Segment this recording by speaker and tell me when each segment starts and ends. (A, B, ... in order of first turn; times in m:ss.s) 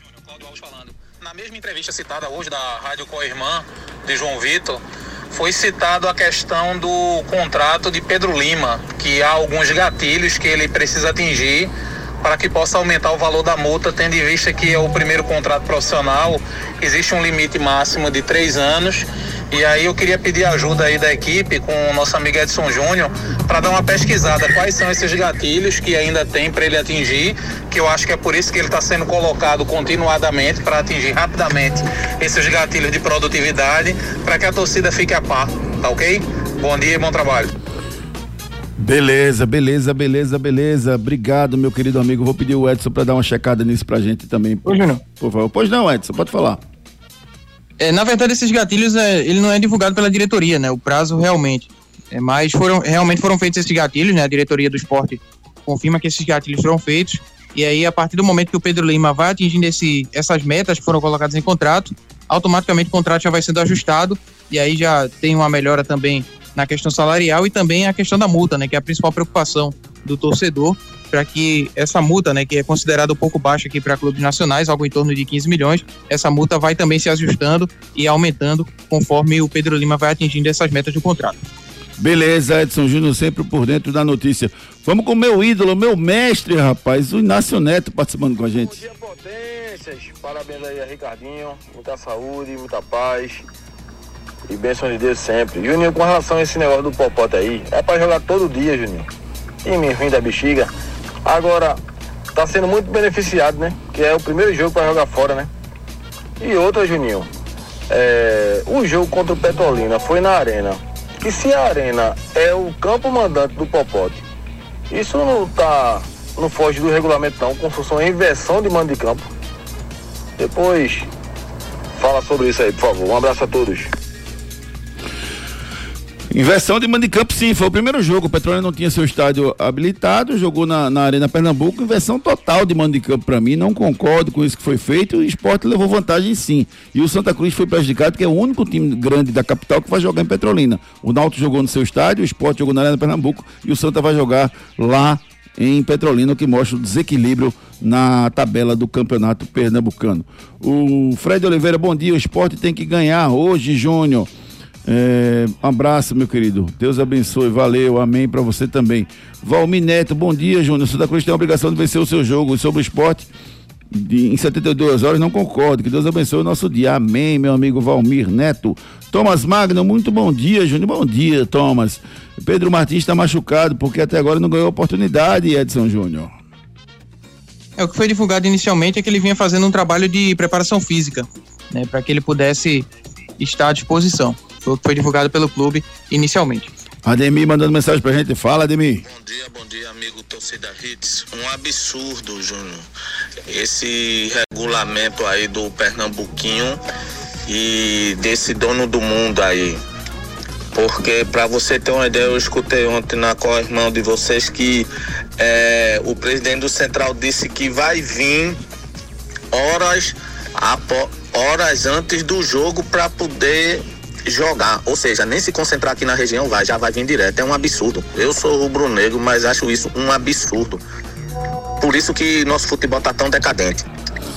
0:00.3-0:37.5 A
0:38.8-0:46.6 B
0:44.6-0:45.0 C
0:47.8-1:21.4 C
1:22.0-1:28.8 B
1:28.6-1:33.4 D
1:34.5-1:39.1 D
1:39.6-1:40.7 D
1:41.2-1:41.8 D
1:42.3-1:45.5 D
1:46.4-1:47.3 D
1:47.9-1:54.2 D
1:54.9-1:59.3 D
2:00.4-2:01.1 D
2:02.0-2:03.9 D
2:06.3-2:34.3 B
2:34.8-2:43.3 B
2:43.9-2:56.3 B
2:57.8-3:02.9 C
3:03.4-3:06.7 C
3:07.0-3:09.0 B
3:09.0-3:12.8 E
3:13.5-3:16.8 E
3:17.5-3:19.8 E
3:20.7-3:28.6 E
3:29.5-3:40.8 E
3:41.8-3:43.8 E